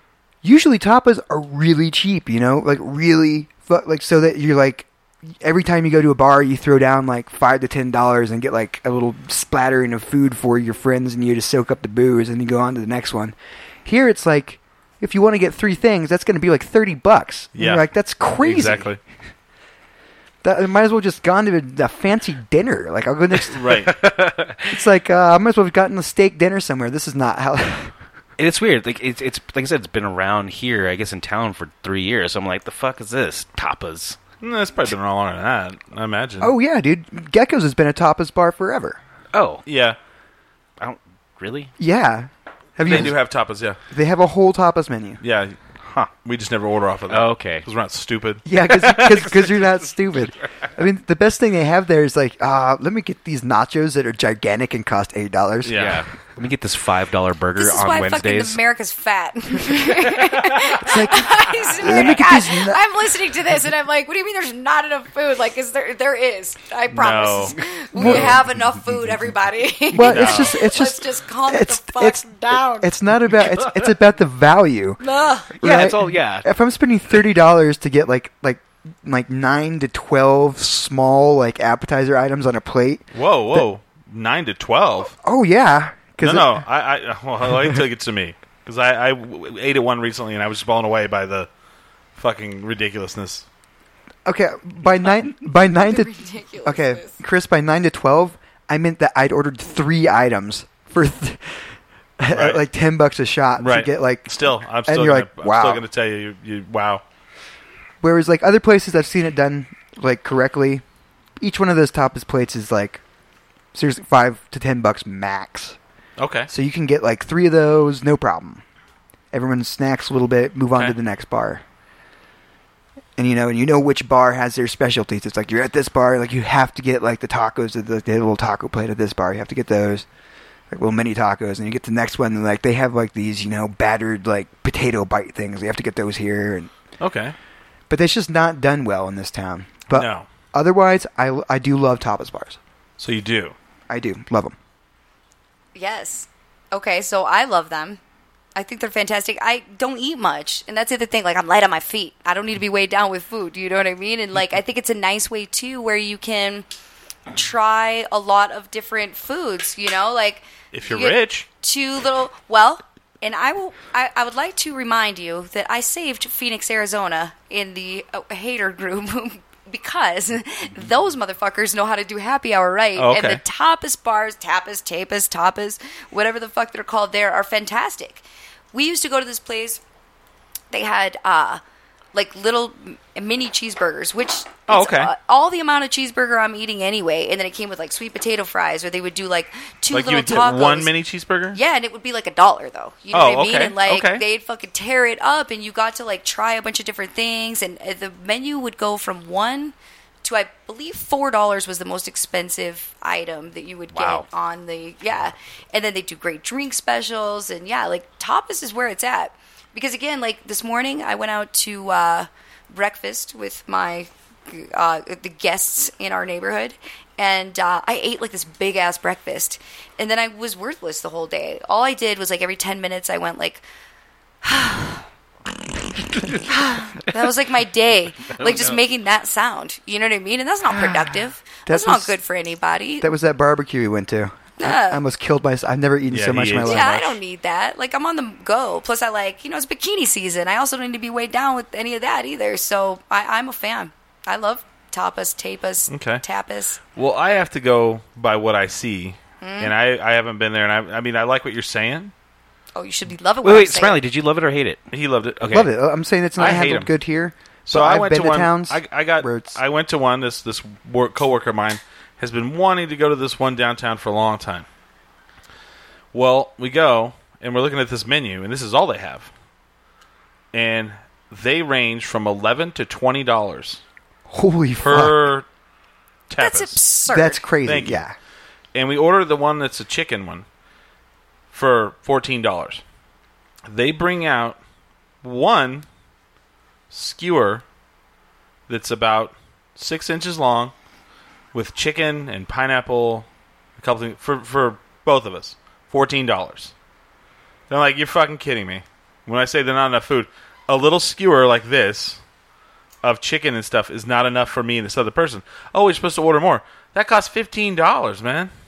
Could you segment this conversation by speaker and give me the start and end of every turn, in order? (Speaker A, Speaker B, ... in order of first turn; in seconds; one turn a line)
Speaker A: 0.4-18.9
Speaker B: 17.6-17.8
Speaker B: 18.4-19.0
Speaker A: 20.4-23.8
Speaker B: 23.5-23.9
Speaker C: 23.9-24.7
Speaker A: 24.7-27.9
Speaker C: 28.4-34.2
Speaker B: 34.4-36.5
Speaker A: 36.4-39.0
Speaker C: 39.3-39.6
Speaker B: 39.7-40.0
Speaker C: 40.8-41.7
Speaker A: 41.8-43.2
Speaker B: 42.8-43.8
Speaker A: 43.9-45.2
Speaker B: 45.2-45.6
Speaker B: 46.2-48.4
Speaker C: 47.1-47.7
Speaker A: 48.5-55.9
Speaker C: 48.6-49.7
Speaker B: 55.6-56.0
Speaker C: 55.7-58.6
Speaker D: 57.6-72.8
Speaker A: 60.8-62.8
Speaker B: 66.9-67.5
Speaker A: 67.9-68.4
Speaker A: 69.9-75.0
Speaker B: 70.1-70.5
Speaker C: 73.5-73.7
Speaker D: 75.0-75.5
Speaker A: 75.5-83.7
Speaker C: 75.6-76.5
Speaker B: 83.1-85.1
Speaker A: 85.2-86.6
Speaker B: 86.2-91.5
Speaker B: 92.2-93.5
Speaker A: 94.2-104.3
Speaker D: 95.9-97.2
Speaker B: 102.3-102.6
Speaker B: 103.6-107.0
Speaker A: 104.9-105.8
Speaker A: 108.0-110.8
Speaker A: 111.4-113.0
Speaker A: 113.7-115.8
Speaker B: 116.2-116.5
Speaker A: 116.5-118.6
Speaker A: 119.3-121.6
Speaker A: 123.2-130.1
Speaker A: 130.7-136.7
Speaker B: 137.0-137.3
Speaker A: 137.9-142.6
Speaker B: 139.9-140.3
Speaker B: 143.0-143.6
Speaker A: 143.9-144.6
Speaker D: 145.8-148.0
Speaker D: 148.6-156.7
Speaker D: 157.3-179.8
Speaker B: 160.7-161.5
Speaker B: 173.0-173.4
Speaker D: 180.7-181.6
Speaker D: 182.1-190.9
Speaker B: 184.7-185.1
Speaker B: 189.9-191.6
Speaker D: 191.5-223.6
Speaker B: 193.1-194.2
Speaker C: 203.9-204.3
Speaker D: 224.4-225.0
Speaker D: 226.5-233.1
Speaker C: 228.4-228.8
Speaker A: 231.7-232.2
Speaker A: 233.0-237.2
Speaker D: 234.6-235.0
Speaker B: 236.1-236.8
Speaker D: 236.7-246.8
Speaker B: 245.9-246.2
Speaker B: 247.0-252.1
Speaker D: 249.4-249.7
Speaker D: 252.8-254.0
Speaker C: 253.4-254.8
Speaker B: 254.9-255.7
Speaker C: 255.4-255.7
Speaker A: 255.5-259.6
Speaker B: 256.4-256.9
Speaker B: 257.7-264.7
Speaker B: 266.1-269.3
Speaker B: 270.5-273.8
Speaker A: 274.3-275.3
Speaker B: 274.8-275.5
Speaker B: 276.3-276.8
Speaker D: 276.4-277.4
Speaker A: 277.1-278.1
Speaker B: 277.6-278.0
Speaker B: 278.7-280.4
Speaker B: 281.5-282.8
Speaker B: 283.7-284.6
Speaker B: 285.2-285.9
Speaker B: 286.9-287.6
Speaker B: 288.7-290.7
Speaker B: 291.5-293.3
Speaker B: 293.8-296.7
Speaker B: 297.7-302.2
Speaker B: 303.0-308.5